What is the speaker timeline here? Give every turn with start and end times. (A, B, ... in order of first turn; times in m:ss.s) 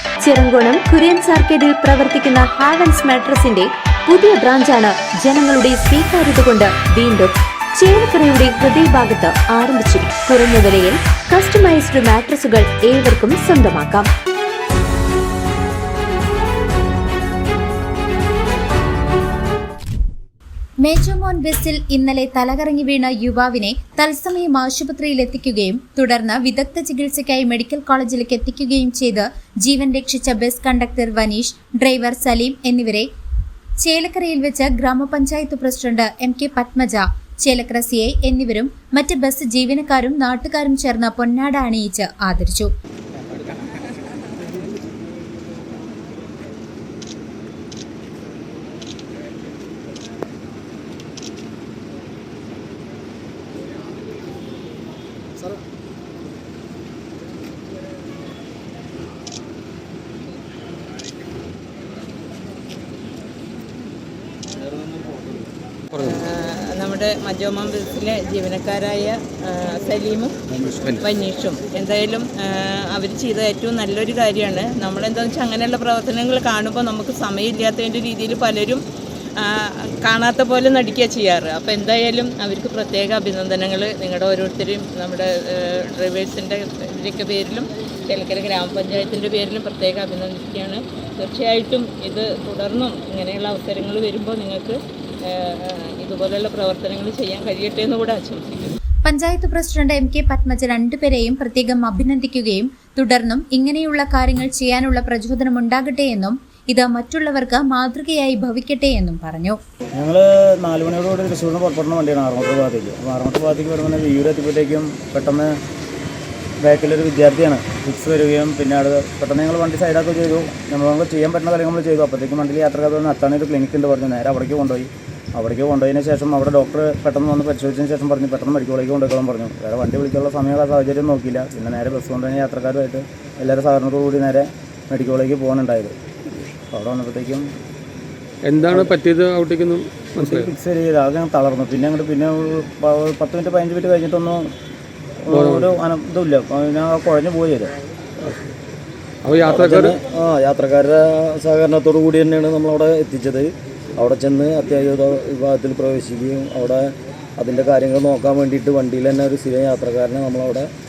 0:00.2-0:14.1 A
0:20.8-0:33.1 B
0:33.8-0:42.7 B
1:05.9-1:06.2 C
1:06.0-1:18.8 D
1:10.7-1:11.0 C
1:19.4-1:38.5 D
1:39.0-1:49.6 B
1:50.0-1:55.5 E
1:56.6-2:16.0 E
2:16.7-2:17.5 E
2:18.4-2:20.5 C
2:20.2-2:24.5 E
2:25.3-2:27.7 E
2:25.3-2:25.7 C
2:28.2-2:28.5 C
2:29.2-2:30.0 C
2:29.5-2:33.4 F
2:34.0-2:36.8 F
2:37.4-2:40.7 F